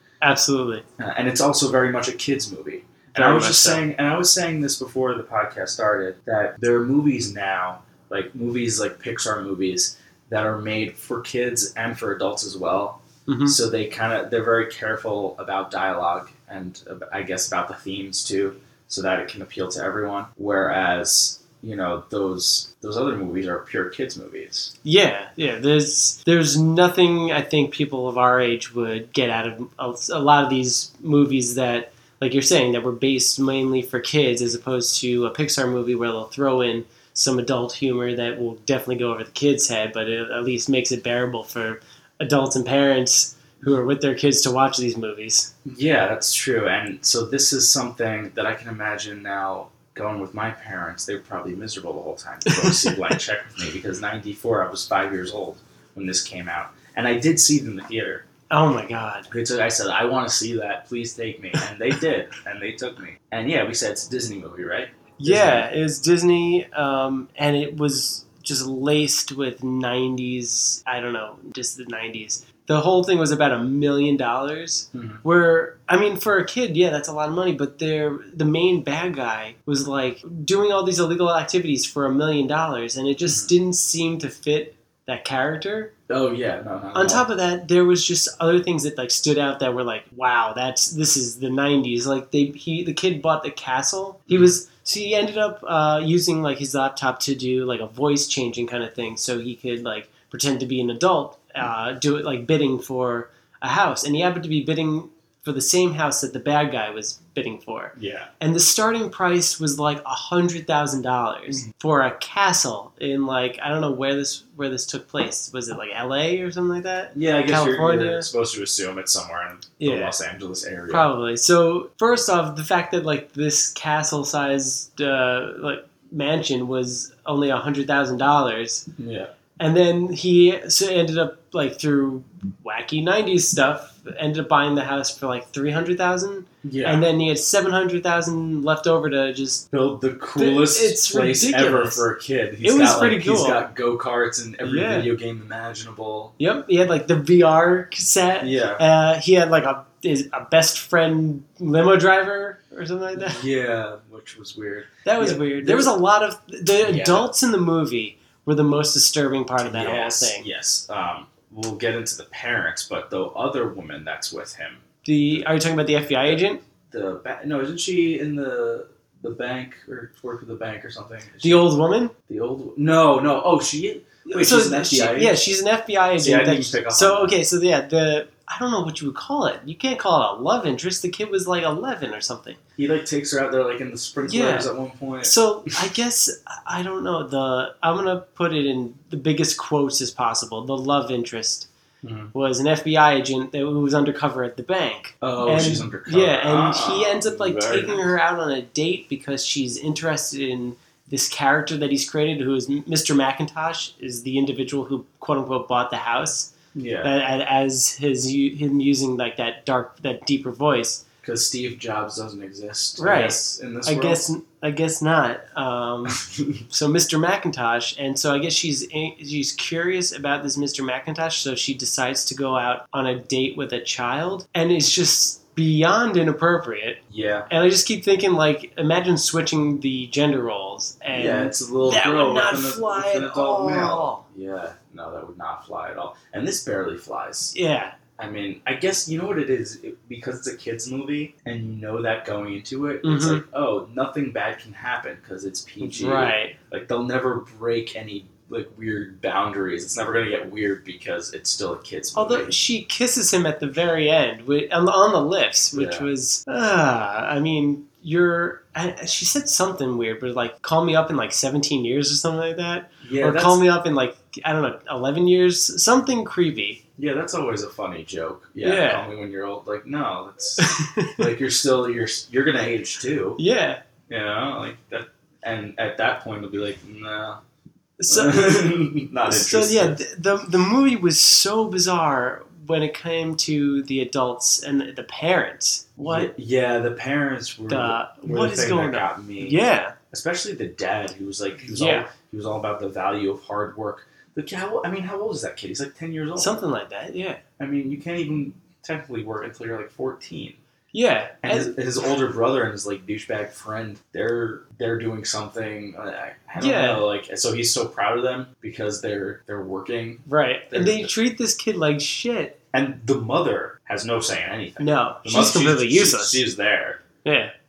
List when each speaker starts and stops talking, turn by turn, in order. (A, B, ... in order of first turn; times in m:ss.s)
0:00.2-0:00.8 A
0:01.0-0:24.7 B
0:03.2-0:03.9 A
0:13.3-0:13.6 A
0:24.8-0:45.5 A
0:45.6-0:58.2 B
0:52.5-0:53.0 A
0:58.5-0:59.3 A
0:59.3-1:05.7 B
1:05.2-1:25.9 A
1:14.9-1:15.2 B
1:26.1-1:27.3 B
1:27.0-1:58.3 A
1:48.0-1:48.3 B
1:57.1-2:01.1 B
1:59.8-2:00.1 A
2:00.9-2:08.9 A
2:09.0-2:09.3 B
2:09.6-2:19.6 A
2:16.6-2:17.1 B
2:19.7-2:26.4 B
2:20.4-2:22.1 A
2:22.6-2:23.6 A
2:24.6-2:25.1 A
2:26.4-2:33.4 A
2:28.4-2:28.8 B
2:33.1-2:35.9 B
2:35.0-2:40.5 A
2:36.8-2:37.3 B
2:39.6-2:44.8 B
2:45.0-2:46.6 A
2:46.2-2:51.7 B
2:51.4-2:52.1 A
2:52.3-2:55.4 B
2:54.3-3:02.6 A
2:56.2-2:57.4 B
3:02.8-3:05.9 B
3:04.3-3:04.7 A
3:05.2-3:11.7 A
3:12.0-3:12.3 B
3:12.3-3:26.5 A
3:15.2-3:18.1 B
3:26.7-3:27.1 B
3:27.0-3:31.0 A
3:31.2-3:34.2 B
3:33.0-3:54.2 A
3:36.1-3:36.6 B
3:47.1-3:47.5 B
3:51.1-3:57.6 B
3:57.5-3:58.0 A
3:58.2-4:12.6 B
4:03.0-4:03.4 A
4:05.8-4:06.6 A
4:12.2-4:26.8 A
4:15.7-4:16.1 B
4:23.0-4:23.6 B
4:27.0-4:33.4 B
4:28.6-4:29.1 A
4:30.6-4:31.3 A
4:33.4-4:33.8 A
4:34.1-4:37.4 B
4:38.0-4:38.5 A
4:38.1-4:40.0 B
4:39.3-4:46.3 A
4:46.0-4:56.6 B
4:47.7-4:50.0 A
4:51.7-4:52.1 A
4:56.4-4:57.4 A
4:57.6-5:00.6 B
5:00.9-5:01.8 A
5:01.4-5:11.1 B
5:06.6-5:07.0 A
5:10.3-5:12.6 A
5:12.7-5:17.0 B
5:14.8-5:16.4 A
5:17.2-5:17.5 A